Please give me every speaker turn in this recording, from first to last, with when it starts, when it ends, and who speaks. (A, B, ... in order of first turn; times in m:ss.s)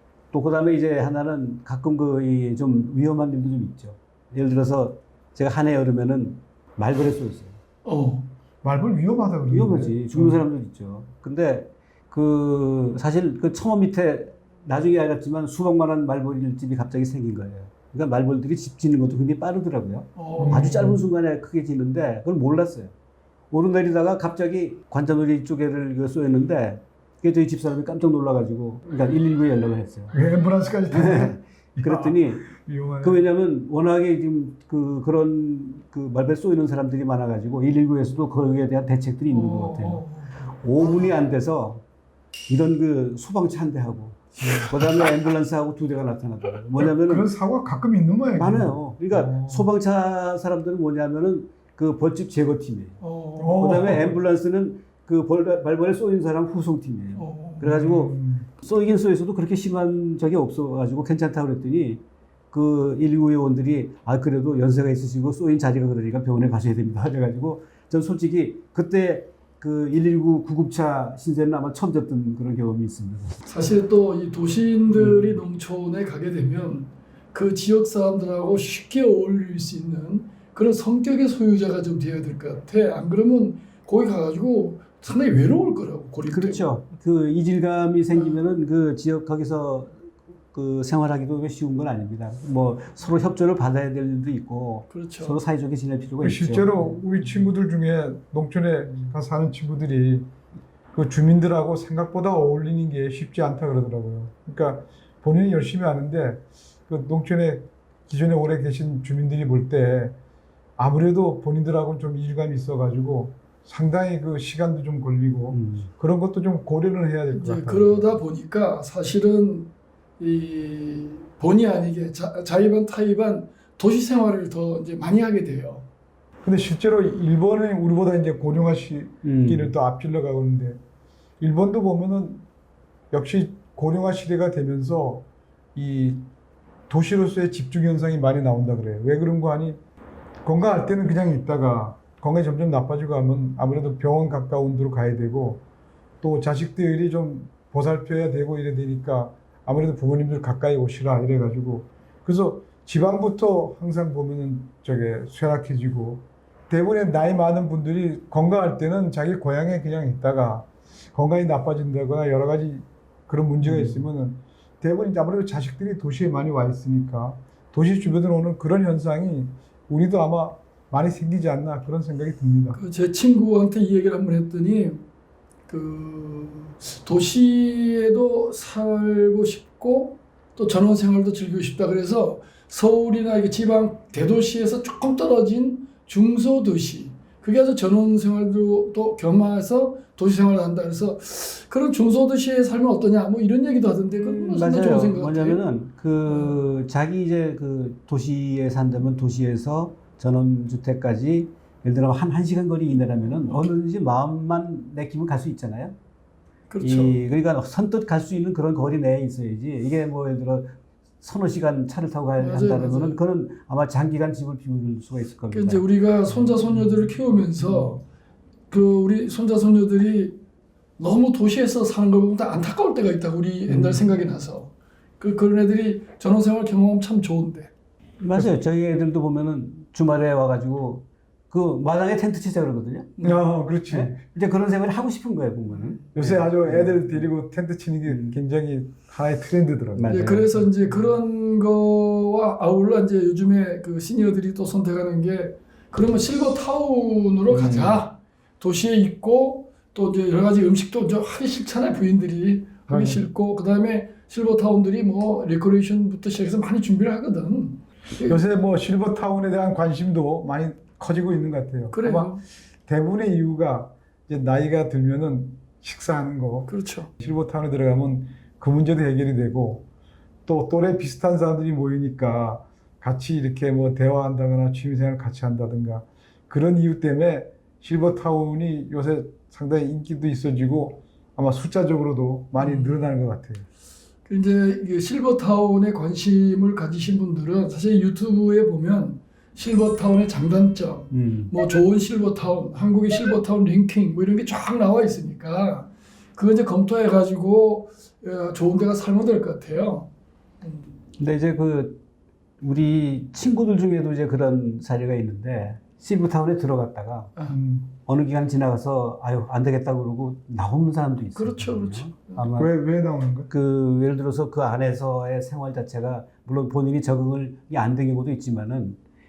0:00.3-0:07.6 A
0:07.8-0:08.3 B
0:08.6-0:10.4 C
0:09.5-0:22.9 A
0:20.2-0:20.7 B
0:20.4-0:21.0 C
0:23.5-0:30.1 A
0:30.1-0:33.2 C
0:30.9-0:32.5 A
0:33.0-0:41.8 A
0:39.3-0:41.1 B
0:42.5-0:47.3 A
0:44.4-0:44.7 B
0:46.8-0:49.7 C
0:48.4-0:53.0 A
0:53.0-0:53.6 B
0:53.4-0:54.2 C
0:53.6-1:13.4 A
0:57.2-0:57.7 B
0:57.6-0:58.5 C
1:13.4-1:26.6 B
1:14.9-1:15.4 A
1:26.3-1:37.5 A
1:34.9-1:35.4 B
1:36.2-1:40.3 C
1:40.9-1:50.2 C
1:50.8-1:58.2 C
1:55.5-1:55.9 A
1:57.3-2:05.9 B
2:06.4-2:10.8 C
2:09.2-2:09.7 A
2:11.4-2:12.4 C
2:13.1-2:16.2 C
2:16.9-2:19.8 C
2:20.4-2:25.6 C
2:26.2-2:52.8 C
2:43.6-2:44.1 A
2:52.7-2:55.0 B
2:55.7-3:15.6 B
3:14.2-3:25.9 A
3:16.3-3:16.6 B
3:26.7-3:27.2 B
3:26.8-3:36.5 A
3:32.4-3:33.2 B
3:35.5-3:38.0 B
3:37.6-3:37.9 A
3:38.7-3:40.4 B
3:41.0-3:47.7 B
3:43.7-3:44.0 A
3:48.2-3:53.1 A
3:53.2-3:54.2 C
3:53.9-3:57.3 A
3:56.2-4:00.1 C
3:58.1-3:58.4 A
4:00.0-4:01.0 A
4:00.1-4:18.4 B
4:07.5-4:08.0 A
4:12.9-4:13.2 C
4:18.2-4:22.4 C
4:21.9-4:22.4 B
4:22.9-4:29.9 C
4:26.7-4:27.1 B
4:30.4-4:43.6 C
4:42.6-4:43.1 B
4:44.3-5:00.1 B
4:51.1-4:51.5 A
5:00.6-5:00.9 B
5:01.2-5:02.0 A
5:02.6-5:07.3 A
5:07.5-5:07.9 C
5:08.1-5:12.7 A
5:11.4-5:12.5 B
5:12.6-5:13.5 C
5:13.5-5:19.0 A